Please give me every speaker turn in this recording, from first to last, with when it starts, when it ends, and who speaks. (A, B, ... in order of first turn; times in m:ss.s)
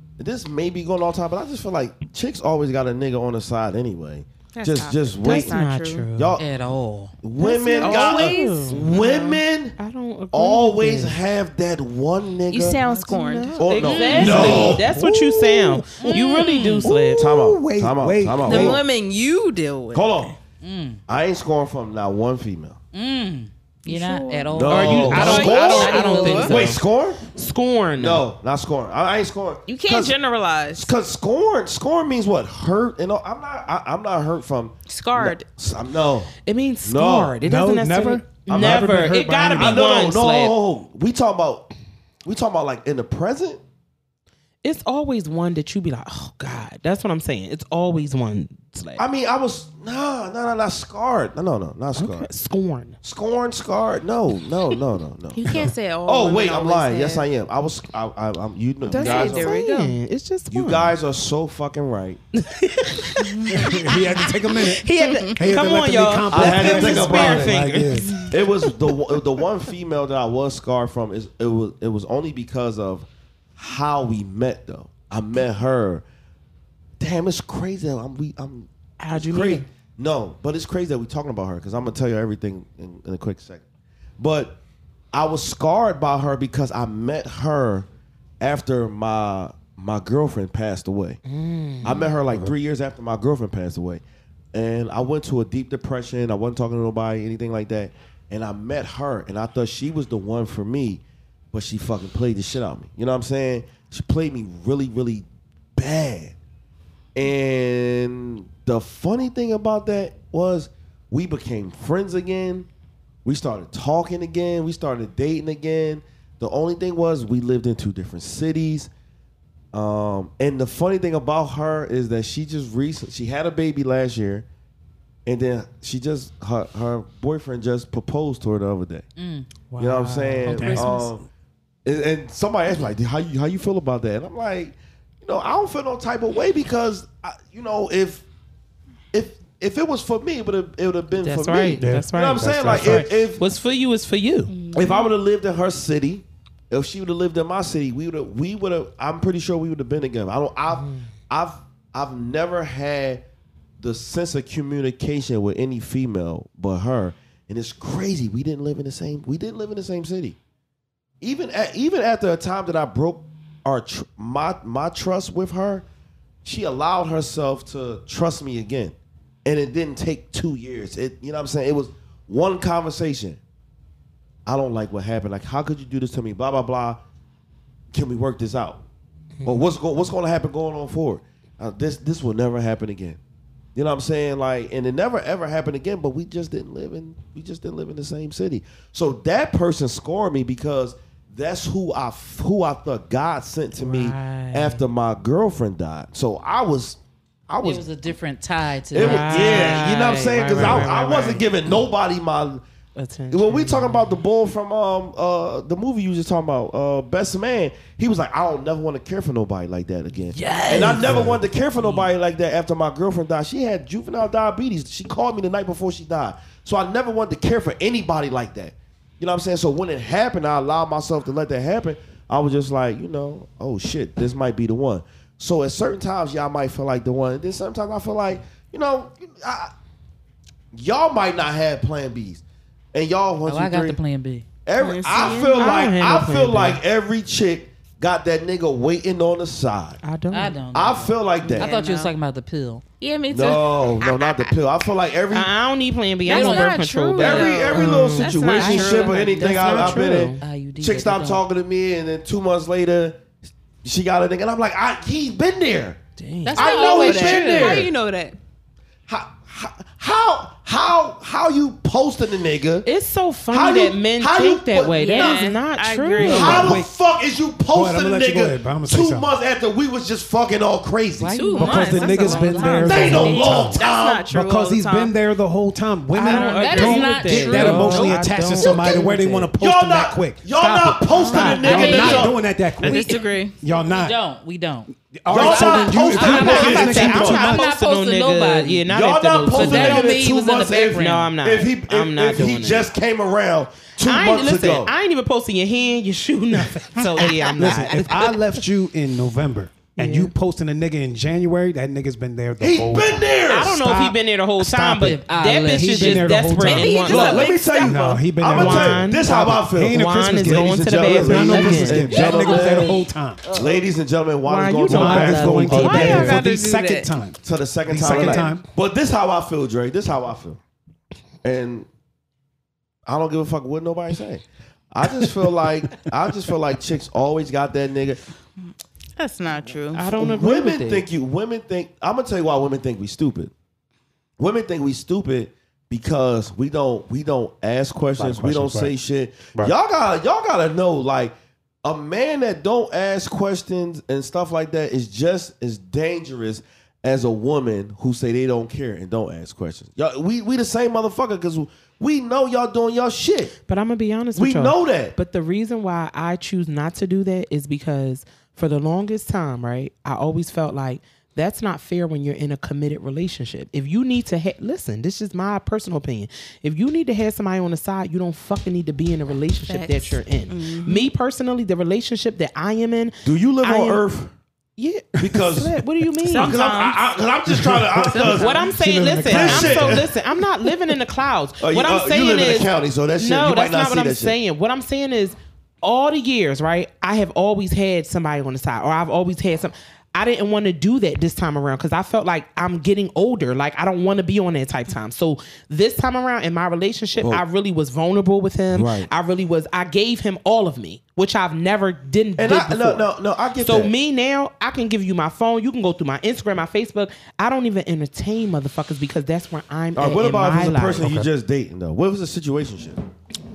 0:00.2-0:05.6 A
0:04.5-0:06.1 B
0:05.2-0:06.4 C
0:06.1-0:06.4 A
0:06.4-0:07.1 D
0:07.2-0:09.8 A
0:07.4-0:09.2 B
0:07.8-0:11.2 C
0:10.3-0:12.8 A
0:12.5-0:14.7 B
0:12.8-0:17.2 C
0:13.6-0:14.9 A
0:13.8-0:14.7 D
0:14.2-0:15.9 E
0:16.0-0:16.9 D
0:16.8-0:18.8 E
0:17.1-0:18.8 A
0:18.4-0:20.3 B
0:19.9-0:20.3 A
0:20.6-0:21.0 D
0:21.1-0:22.8 A
0:22.9-0:26.7 D
0:23.8-0:26.6 B
0:24.5-0:27.2 A
0:24.7-0:28.2 C
0:28.0-0:30.2 A
0:29.7-0:30.9 B
0:30.7-0:36.3 A
0:34.9-0:35.5 B
0:36.4-0:40.6 C
0:36.8-0:37.4 A
0:37.4-0:39.8 E
0:38.5-0:38.9 A
0:39.5-0:41.7 A
0:42.2-0:43.6 A
0:44.6-0:49.0 C
0:49.0-0:52.3 A
0:52.0-0:53.0 C
0:53.0-0:59.6 A
0:55.3-0:57.3 B
0:58.9-1:00.9 C
0:58.9-1:00.0 B
1:00.5-1:02.2 A
1:02.3-1:08.3 C
1:03.2-1:03.9 B
1:03.5-1:08.2 E
1:05.0-1:05.4 B
1:06.3-1:07.6 A
1:08.2-1:16.0 A
1:17.0-1:23.6 A
1:19.0-1:19.6 C
1:24.2-1:24.6 A
1:25.1-1:27.8 A
1:28.4-1:31.2 A
1:31.2-1:32.0 C
1:31.8-1:34.0 A
1:34.5-1:46.3 A
1:47.1-1:52.7 A
1:53.2-1:58.9 A
1:59.7-2:04.4 A
2:05.2-2:09.0 A
2:09.2-2:09.6 D
2:09.8-2:11.2 A
2:10.0-2:10.9 E
2:10.4-2:11.1 D
2:11.8-2:18.2 A
2:19.1-2:23.4 A
2:21.1-2:24.6 C
2:21.8-2:23.1 E
2:24.5-2:25.1 B
2:24.7-2:33.2 A
2:33.8-2:40.4 A
2:41.2-2:45.8 A
2:46.4-2:53.4 A
2:54.4-2:57.0 A
2:57.9-2:58.8 A
2:59.4-3:03.2 A
3:03.7-3:17.0 A
3:13.8-3:14.8 D
3:17.5-3:17.8 A
3:17.6-3:20.9 D
3:18.9-3:22.6 A
3:19.0-3:21.4 C
3:23.0-3:24.1 C
3:23.3-3:49.7 A
3:30.3-3:32.1 C
3:30.8-3:31.4 E
3:50.7-3:52.4 A
3:52.9-3:54.0 A
3:53.4-3:54.4 D
3:54.6-4:00.0 A
3:54.8-3:55.6 B
3:55.2-3:56.8 C
4:00.0-4:00.6 C
4:00.3-4:02.8 D
4:00.7-4:01.7 A
4:01.4-4:02.1 B
4:03.0-4:04.5 B
4:03.3-4:05.5 A
4:05.3-4:10.4 C
4:06.2-4:10.2 B
4:06.3-4:06.8 D
4:07.2-4:13.2 A
4:08.8-4:09.2 D
4:10.4-4:11.4 D
4:13.8-4:16.0 A
4:16.2-4:16.6 C
4:16.4-4:17.9 D
4:16.5-4:17.9 A
4:16.6-4:18.4 B
4:19.1-4:22.9 A
4:22.8-4:26.8 C
4:23.5-4:25.4 A
4:25.0-4:26.8 B
4:25.1-4:25.5 D
4:26.2-4:26.9 E
4:26.2-4:31.4 A
4:27.7-4:29.3 E
4:31.2-4:33.6 D
4:31.3-4:35.1 B
4:31.6-4:44.1 E
4:32.8-4:34.3 A
4:36.1-4:39.5 C
4:36.2-4:38.2 D
4:36.2-4:36.9 B
4:37.5-4:39.2 B
4:39.6-4:42.4 A
4:41.1-4:43.6 B
4:41.4-4:42.3 D
4:41.4-4:41.7 C
4:42.8-4:43.2 D
4:43.9-4:48.8 D
4:45.1-4:47.6 E
4:45.3-4:47.4 A
4:46.3-4:50.2 C
4:48.9-4:54.9 A
4:49.5-4:51.3 D
4:50.9-4:52.9 C
4:54.0-4:58.3 C
4:57.6-5:03.3 E
5:00.0-5:00.3 C
5:02.6-5:04.0 A
5:03.5-5:07.5 C
5:04.7-5:06.5 D
5:04.8-5:07.1 E
5:06.6-5:08.2 B
5:07.0-5:13.0 A
5:07.7-5:13.4 E
5:08.4-5:12.2 C
5:11.6-5:13.8 B
5:13.5-5:16.4 A
5:14.4-5:16.4 C
5:14.9-5:18.7 E
5:15.7-5:17.1 B
5:17.4-5:20.6 A
5:18.0-5:18.4 C
5:21.4-5:21.9 A
5:23.0-5:28.2 A
5:29.2-5:30.1 B
5:29.9-5:31.0 C
5:30.1-5:33.5 A
5:34.4-5:53.5 A
5:38.2-5:38.9 E
5:53.7-6:14.0 C
5:54.3-5:55.1 A
6:09.7-6:11.1 B
6:13.2-6:14.3 A
6:14.8-6:16.6 C
6:15.2-6:15.8 A
6:16.2-6:17.1 B
6:16.3-6:18.6 A
6:17.5-6:20.1 E
6:18.1-6:18.7 B
6:18.2-6:51.1 C
6:19.2-6:20.1 A
6:21.6-6:24.4 A
6:38.7-6:39.1 A
6:42.4-6:43.9 A
6:49.9-6:53.0 A
6:51.0-6:51.3 E